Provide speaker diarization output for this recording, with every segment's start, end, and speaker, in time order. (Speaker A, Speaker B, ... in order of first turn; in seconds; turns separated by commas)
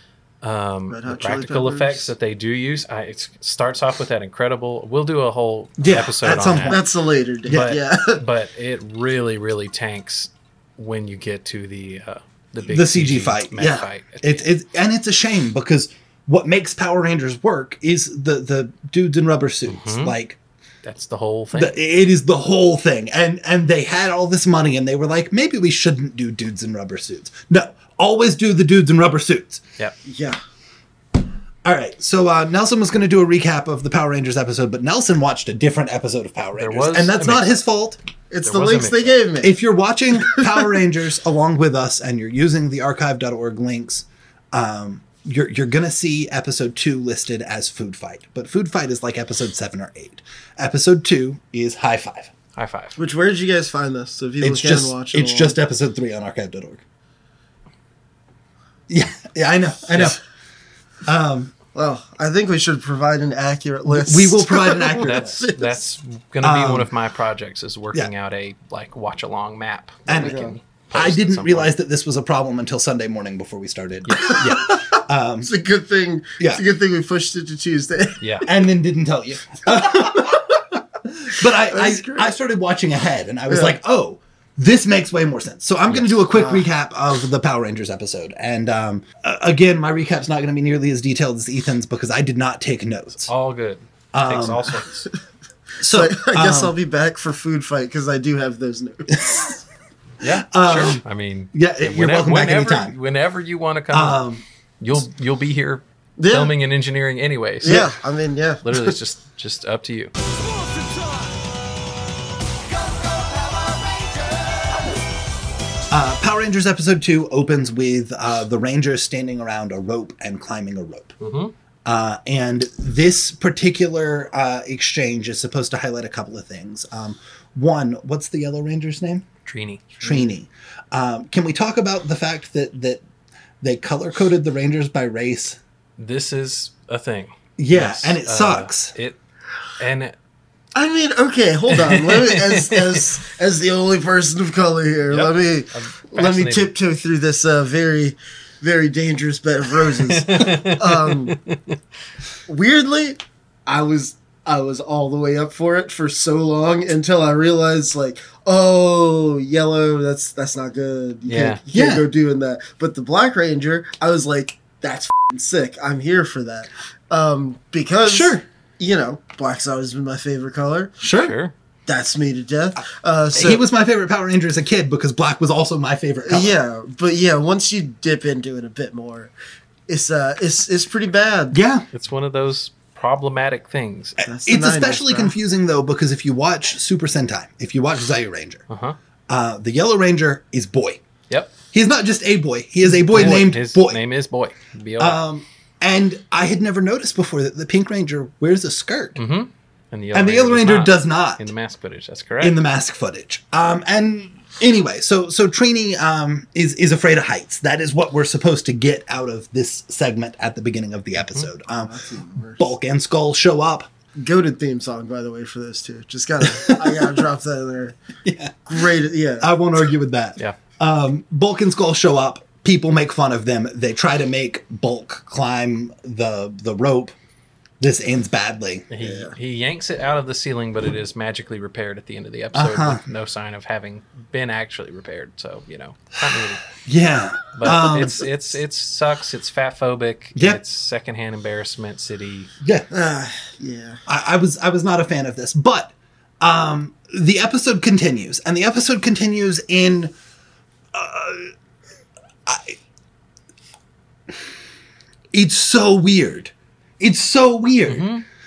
Speaker A: 0.4-6.8, Speaker B: 0.9-2.1, Speaker C: 5.8-6.8, Speaker B: 6.7-8.2, Speaker C: 7.5-7.7, Speaker A: 7.5-14.4, Speaker C: 12.6-20.4, Speaker A: 19.7-20.1, Speaker A: 20.8-21.8, Speaker C: 21.5-29.6, Speaker B: 30.0-30.4, Speaker C: 31.6-38.0, Speaker A: 36.6-37.6, Speaker B: 38.3-39.5, Speaker A: 38.4-39.2, Speaker C: 39.4-52.3, Speaker B: 40.2-40.7, Speaker A: 52.5-53.0, Speaker B: 53.0-55.5, Speaker C: 54.4-56.8, Speaker C: 58.9-60.2, Speaker C: 61.0-61.5, Speaker B: 61.7-65.8, Speaker C: 63.9-65.5, Speaker A: 65.0-71.7, Speaker C: 66.4-66.9, Speaker C: 70.0-70.4, Speaker B: 70.1-70.5, Speaker C: 70.9-75.5, Speaker B: 74.2-78.5, Speaker C: 76.4-76.6, Speaker A: 78.2-78.5, Speaker C: 78.4-93.3, Speaker B: 79.9-80.5, Speaker B: 81.6-82.3, Speaker B: 83.5-83.8, Speaker B: 86.3-86.7, Speaker A: 93.2-95.1, Speaker C: 94.1-94.8, Speaker C: 95.8-96.7, Speaker B: 95.8-99.5, Speaker C: 99.1-99.6, Speaker A: 100.2-104.2, Speaker C: 100.4-101.0, Speaker C: 101.5-103.0, Speaker C: 103.9-104.4, Speaker A: 104.8-107.9, Speaker B: 106.2-106.5, Speaker B: 107.6-108.9, Speaker A: 108.6-110.1, Speaker C: 115.9-121.1, Speaker A: 121.2-121.5, Speaker C: 121.8-129.2, Speaker A: 129.4-129.9, Speaker C: 130.0-133.0, Speaker C: 133.6-135.6, Speaker A: 136.0-139.2, Speaker C: 137.6-138.9, Speaker A: 139.8-140.1, Speaker B: 140.7-151.4, Speaker A: 141.7-143.0, Speaker A: 145.1-146.7, Speaker A: 150.1-151.8, Speaker B: 152.5-170.9, Speaker A: 161.3-161.6, Speaker C: 161.7-162.1, Speaker C: 168.0-168.4, Speaker C: 171.0-171.3, Speaker A: 171.1-171.5, Speaker B: 171.9-173.6, Speaker C: 173.3-176.6, Speaker B: 176.2-179.3, Speaker B: 179.9-181.6, Speaker C: 181.5-181.8, Speaker A: 181.9-184.2, Speaker C: 184.2-188.6, Speaker B: 184.2-185.3, Speaker A: 188.7-188.9, Speaker C: 189.3-191.0, Speaker C: 191.7-194.0, Speaker A: 193.1-195.2, Speaker C: 195.0-199.2, Speaker A: 199.2-202.6, Speaker C: 200.1-201.4, Speaker C: 202.4-212.0, Speaker A: 211.2-211.5, Speaker B: 211.7-212.7, Speaker C: 212.6-213.9, Speaker B: 214.2-217.9, Speaker C: 216.6-217.2, Speaker C: 218.2-218.9, Speaker B: 218.7-219.5, Speaker C: 219.4-227.1, Speaker C: 227.8-228.9, Speaker A: 228.9-236.6, Speaker B: 229.0-229.3, Speaker C: 232.5-233.0, Speaker C: 236.7-238.2, Speaker A: 237.5-242.5, Speaker C: 242.6-242.8, Speaker B: 242.9-244.0, Speaker C: 244.1-250.1, Speaker C: 250.9-251.5, Speaker C: 252.4-252.8, Speaker C: 255.3-258.1, Speaker A: 257.9-258.2